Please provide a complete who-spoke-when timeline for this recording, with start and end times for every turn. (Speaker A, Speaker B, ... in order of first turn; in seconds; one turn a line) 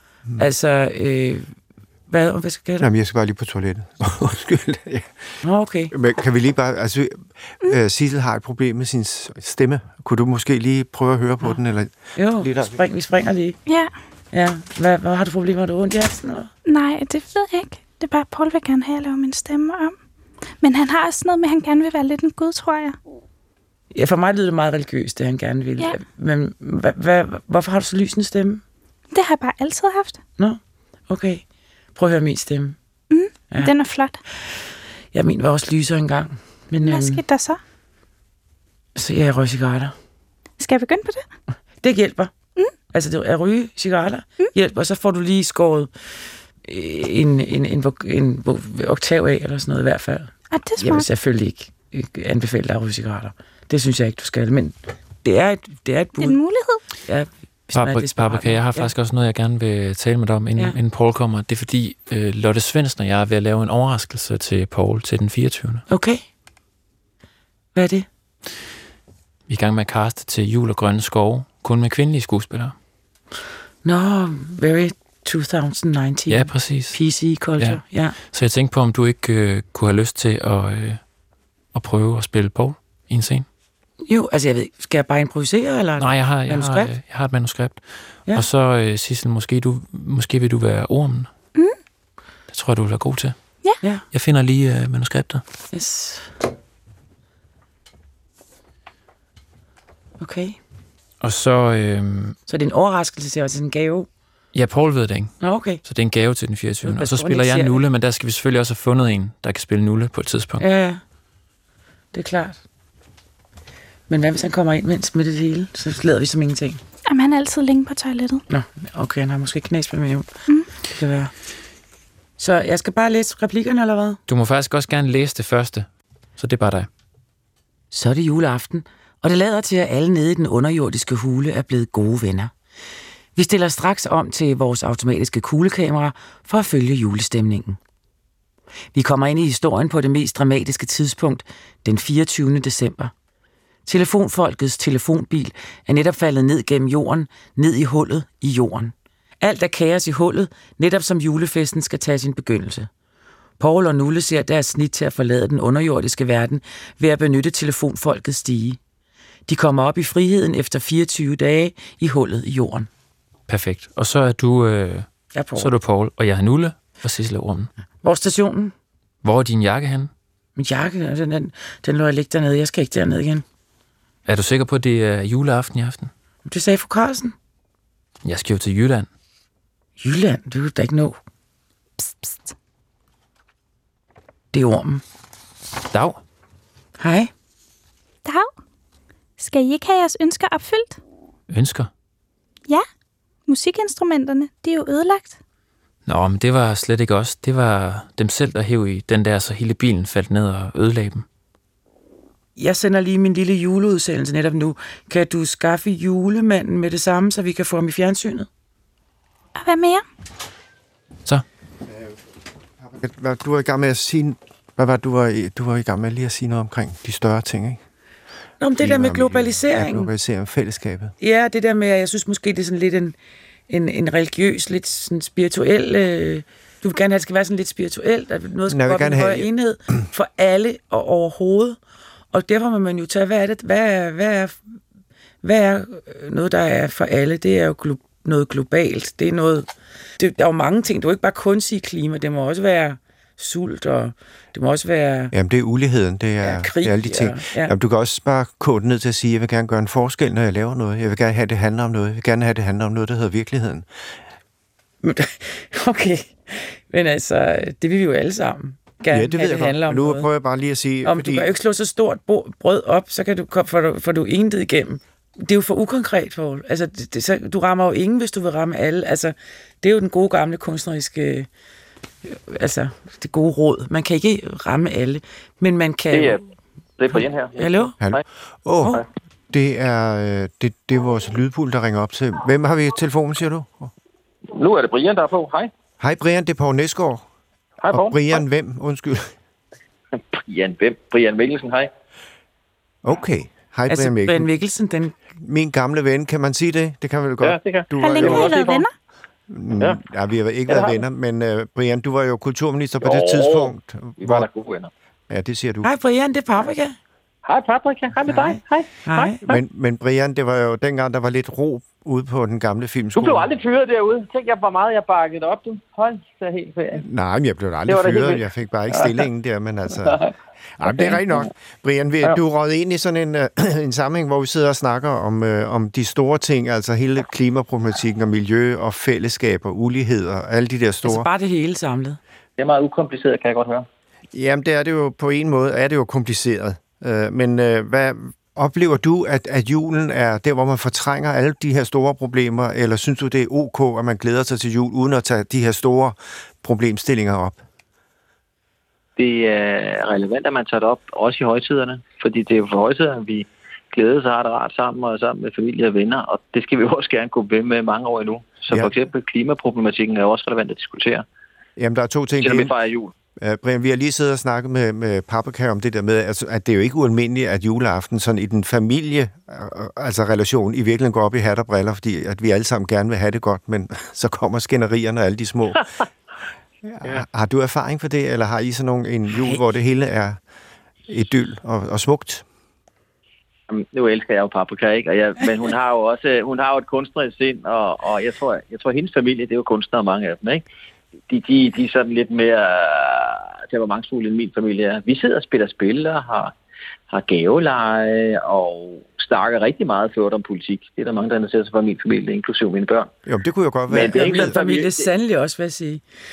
Speaker A: 0.4-1.5
Speaker A: 2.1-2.9
Speaker B: 2.8-12.8
Speaker A: 5.4-5.9
Speaker A: 12.2-13.6
Speaker C: 13.7-13.9
Speaker A: 14.3-16.5
Speaker C: 16.6-19.9
Speaker C: 20.6-23.0
Speaker A: 23.9-28.6
Speaker C: 29.1-30.2
Speaker A: 30.4-31.4
Speaker A: 31.9-32.8
Speaker C: 33.1-34.2
Speaker A: 34.4-37.2
Speaker C: 36.8-37.6
Speaker A: 38.9-39.9
Speaker C: 40.6-41.3
Speaker A: 41.8-42.3
Speaker A: 42.9-56.4
Speaker C: 50.5-51.0
Speaker C: 56.2-56.8
Speaker A: 57.0-58.9
Speaker D: 57.8-65.8
Speaker A: 65.9-66.2
Speaker A: 67.8-68.0
Speaker D: 69.5-72.7
Speaker A: 73.8-78.2
Speaker D: 76.3-81.0
Speaker D: 81.7-83.5
Speaker A: 84.0-86.9
Speaker D: 86.0-91.3
Speaker D: 92.5-95.4
Speaker A: 95.7-96.3
Speaker A: 100.2-100.6
Speaker D: 101.2-102.3
Speaker A: 102.5-104.1
Speaker D: 104.5-110.6
Speaker A: 105.4-105.8
Speaker A: 106.8-107.8
Speaker A: 110.6-111.0
Speaker A: 112.1-112.6
Speaker A: 114.1-116.8
Speaker C: 117.0-118.4
Speaker A: 118.5-120.3
Speaker A: 120.8-121.3
Speaker A: 122.4-124.2
Speaker D: 124.3-126.9
Speaker A: 127.9-132.5
Speaker A: 133.3-137.8
Speaker A: 138.9-143.1
Speaker A: 143.8-152.9
Speaker A: 153.6-158.8
Speaker A: 159.5-162.9
Speaker D: 163.5-167.7
Speaker A: 165.3-165.7
Speaker A: 168.0-168.7
Speaker D: 169.2-170.1
Speaker A: 170.6-173.4
Speaker D: 174.2-176.1
Speaker A: 176.4-177.3
Speaker D: 178.2-179.1
Speaker A: 180.0-181.2
Speaker C: 182.0-182.5
Speaker A: 184.5-185.0
Speaker D: 185.9-186.2
Speaker A: 187.0-187.3
Speaker C: 188.2-188.5
Speaker C: 189.4-191.0
Speaker D: 191.5-191.9
Speaker C: 193.5-195.3
Speaker D: 196.1-201.2
Speaker A: 202.6-208.5
Speaker C: 209.5-210.0
Speaker B: 212.8-217.8
Speaker A: 218.6-220.1
Speaker B: 218.8-221.1
Speaker A: 221.2-223.1
Speaker A: 223.7-231.8
Speaker B: 228.7-229.5
Speaker A: 232.3-234.6
Speaker A: 235.4-239.7
Speaker A: 240.2-245.3
Speaker B: 245.3-254.1
Speaker A: 246.4-247.7
Speaker A: 255.0-260.3
Speaker B: 259.1-261.5
Speaker A: 261.0-271.5
Speaker A: 272.2-276.4
Speaker E: 276.1-276.4
Speaker E: 277.0-278.2
Speaker A: 277.1-278.0
Speaker B: 278.0-283.9
Speaker E: 284.5-285.7
Speaker B: 286.0-287.2
Speaker E: 287.8-288.4
Speaker B: 287.9-289.3
Speaker E: 290.3-291.9
Speaker B: 293.0-294.5
Speaker A: 293.9-295.1
Speaker B: 295.4-298.6
Speaker E: 297.4-298.8
Speaker C: 298.0-298.9
Speaker B: 299.5-304.5
Speaker E: 300.7-301.0
Speaker E: 303.0-304.9
Speaker B: 305.3-305.9
Speaker A: 305.8-307.0
Speaker E: 307.4-309.6
Speaker A: 308.3-309.4
Speaker B: 309.4-313.5
Speaker E: 313.1-317.0
Speaker B: 316.9-331.3
Speaker E: 317.9-319.2
Speaker E: 320.0-320.3
Speaker E: 320.9-321.2
Speaker A: 331.0-332.2
Speaker E: 332.6-333.9
Speaker B: 334.3-347.6
Speaker E: 349.2-361.2
Speaker B: 361.8-362.7
Speaker E: 362.4-363.1
Speaker B: 363.4-376.0
Speaker B: 376.8-380.4
Speaker B: 381.1-382.4
Speaker E: 383.7-390.6
Speaker E: 391.3-396.5
Speaker E: 397.1-403.1
Speaker B: 403.2-404.5
Speaker E: 403.9-405.1
Speaker A: 404.1-406.0